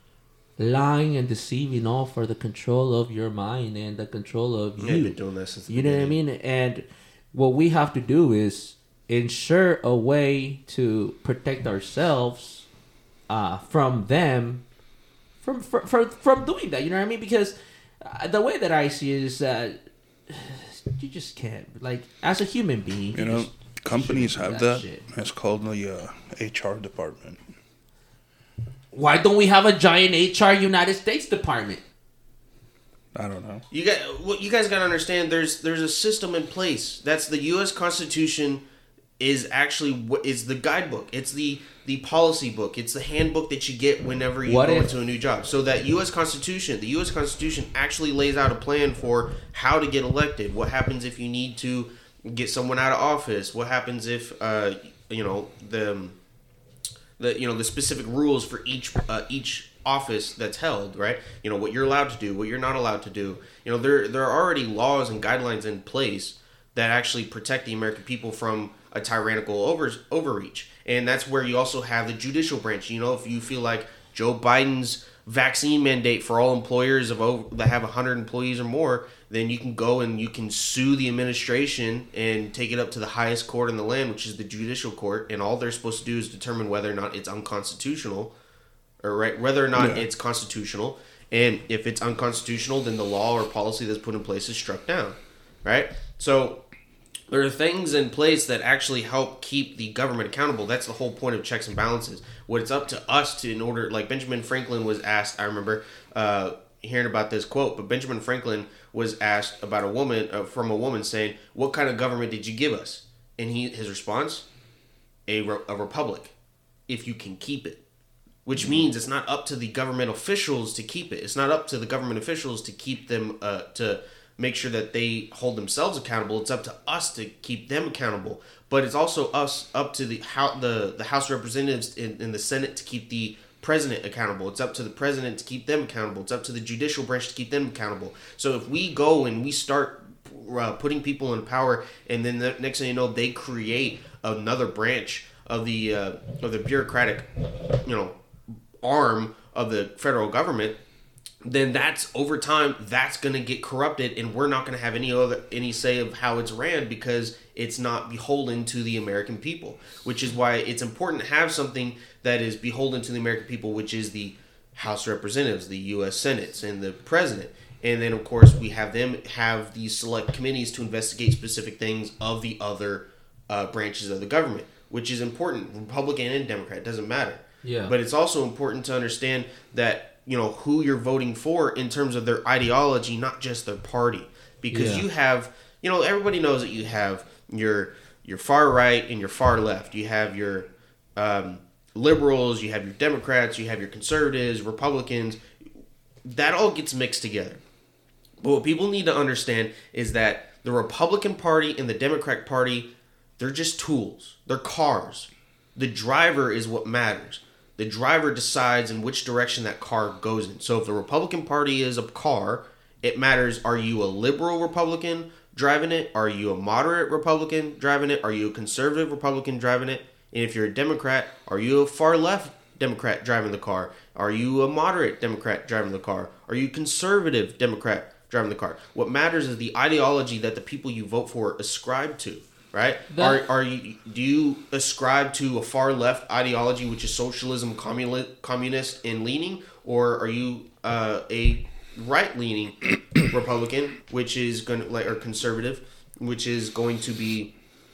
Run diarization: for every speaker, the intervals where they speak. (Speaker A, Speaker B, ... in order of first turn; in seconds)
Speaker A: 0.6-5.2, 5.7-12.7, 13.3-14.6, 15.4-19.8, 20.3-25.0, 28.9-31.8, 44.4-44.9, 177.6-177.9, 184.7-185.0, 233.1-233.4
Speaker B: 4.8-6.2, 33.7-38.6, 39.2-56.1, 57.2-88.3, 89.0-96.6, 97.3-114.4, 115.3-116.3, 116.9-117.8, 118.5-147.2, 147.8-150.8, 151.4-195.4, 196.2-197.6, 198.4-202.9, 203.4-247.5
Speaker C: 23.1-27.4, 33.1-33.6, 89.7-90.0